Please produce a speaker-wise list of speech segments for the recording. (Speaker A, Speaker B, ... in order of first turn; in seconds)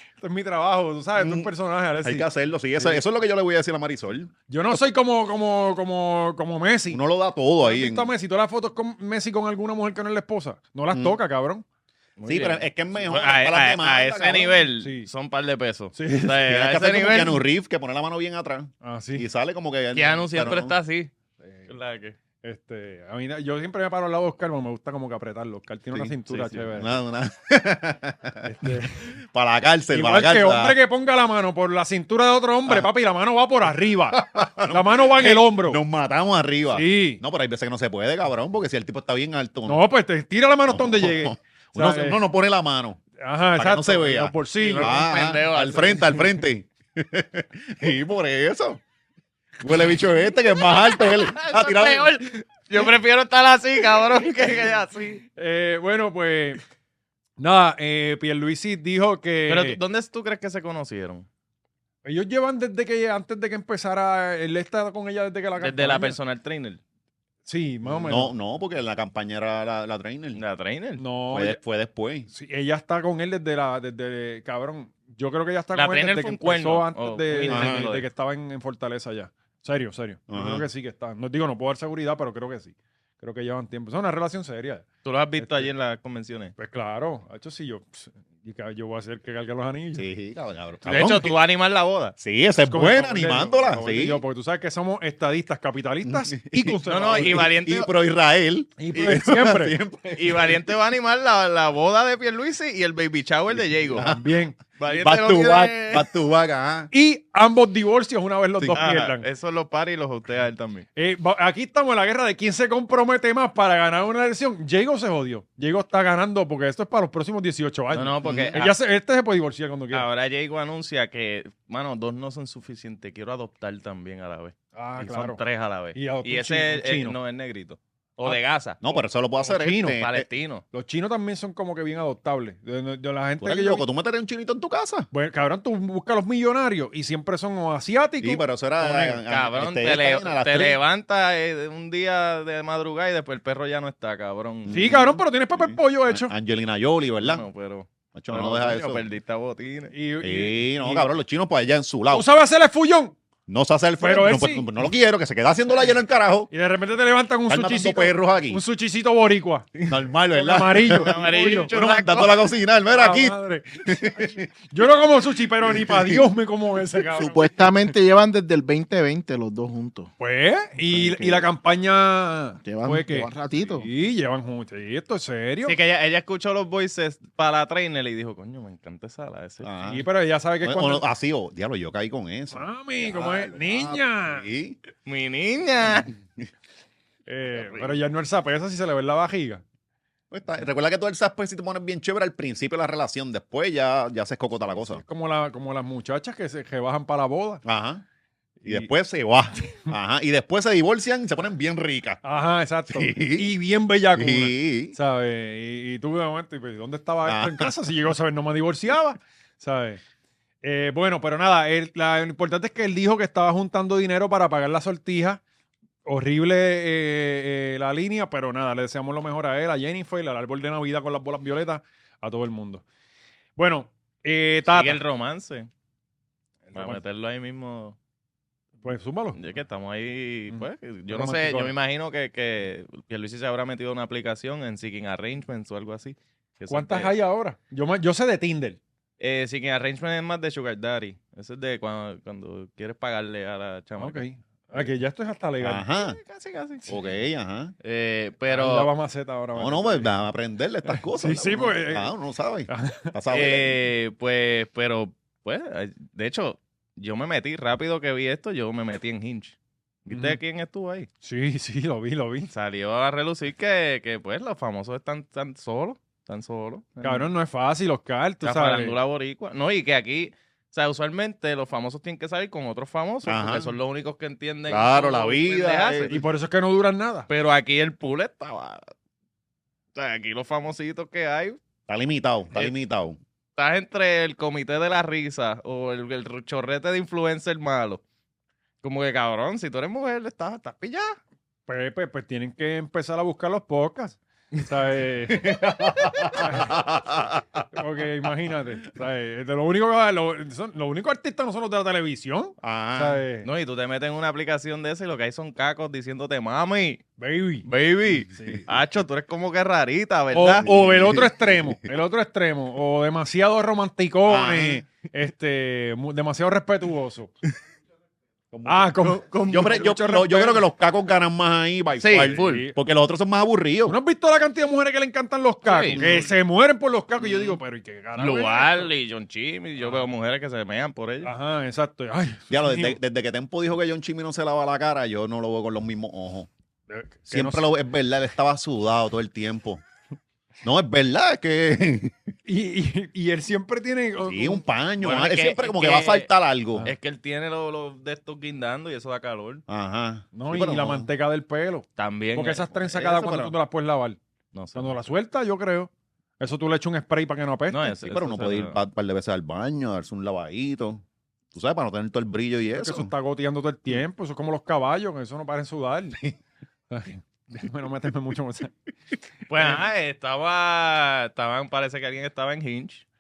Speaker A: 0.2-2.3, 4.5-7.0, 7.6-11.6, 14.8-15.1, 15.9-16.4, 18.8-19.3, 21.4-21.7, 22.4-26.9, 28.4-29.1, 29.9-35.8, 36.7-37.2, 39.6-42.2, 43.2-45.0, 55.4-56.6, 57.4-59.8, 62.0-66.2, 67.5-68.3, 71.0-71.6, 72.3-84.9, 85.4-85.7, 86.6-90.1, 92.7-97.5, 98.8-99.8, 104.0-104.6, 106.9-109.3, 111.0-120.1, 124.8-125.4, 125.9-127.2, 129.4-130.0, 130.7-133.8, 135.1-139.2, 144.7-146.3, 149.9-151.1, 152.1-153.1, 154.0-154.7, 156.5-161.7, 162.9-167.5, 170.2-175.8, 179.9-181.1, 182.5-184.4, 187.3-189.6, 194.7-197.6, 198.6-198.9, 202.2-210.0, 210.6-215.4, 216.1-222.8, 223.6-225.0, 226.7-227.0, 228.8-229.4, 230.5-231.7, 236.7-238.8, 244.0-245.8, 248.5-250.1, 250.9-252.1, 252.7-253.1, 260.1-260.4, 261.2-262.5, 267.0-268.9, 276.1-277.3, 291.7-295.5, 296.4-296.8, 297.7-303.5, 307.2-307.7, 308.3-308.7, 310.3-317.3, 318.6-320.6, 322.3-322.8, 323.9-328.9, 331.2-333.0, 336.9-337.7, 342.4-344.6, 350.3-354.2, 354.8-357.9, 362.7-366.2, 366.9-368.7, 369.5-369.8
Speaker B: 1.1-1.5, 2.0-4.3, 6.9-8.1, 10.9-11.2, 12.3-14.7, 16.4-20.7, 26.7-30.8, 34.1-39.8, 40.7-43.0, 43.5-48.8, 49.6-52.2, 67.8-70.4, 71.3-72.3, 77.5-77.9, 80.3-80.7, 90.0-91.4, 92.2-94.2, 96.0-100.7, 103.9-104.2, 104.9-106.9, 118.2-118.6, 128.8-130.3, 133.4-135.1, 138.2-140.8, 144.7-147.4, 148.1-149.0, 150.2-152.3, 153.5-156.5, 157.5-158.6, 159.9-164.5, 165.6-166.3, 179.6-180.1, 180.6-184.8, 190.3-195.0, 197.6-198.0, 198.7-202.2, 202.9-203.5, 204.1-204.9, 207.2-207.7, 245.6-246.2, 246.9-247.7, 249.6-253.8, 273.2-273.7, 274.7-276.2, 281.9-283.2, 295.3-297.6, 302.6-303.2, 310.6-311.9, 314.3-314.8, 318.5-323.9, 325.9-326.3, 332.5-336.5, 337.3-339.8, 340.6-342.1, 344.2-346.9, 349.7-351.1, 358.1-363.1
Speaker C: 12.2-17.4, 19.9-21.1, 21.7-22.2, 26.3-26.7, 44.6-46.2, 50.5-55.2, 59.5-61.3, 65.6-66.8, 70.4-71.0, 75.7-78.1, 85.0-86.5, 90.8-92.2, 96.9-97.9, 100.2-104.1, 104.8-106.1, 108.7-110.9, 117.9-118.8, 119.9-128.9, 129.9-130.6, 139.3-144.8, 147.2-149.9, 160.8-162.4, 175.6-179.7, 185.1-186.1, 224.7-225.7, 226.8-227.9, 229.4-237.1, 239.2-244.2, 245.9-246.9, 247.8-248.9, 253.3-261.1, 262.5-267.3, 268.4-276.1, 277.3-278.9, 279.9-281.6, 283.6-288.0, 288.8-291.2, 303.4-307.0, 307.6-310.6, 319.0-319.9, 322.0-322.6, 325.6-326.3, 328.2-331.3, 345.0-346.3, 346.9-349.6, 352.0-353.5, 354.5-355.0, 357.7-358.8, 369.5-373.0
Speaker D: 167.1-170.1, 170.9-171.5, 172.6-173.9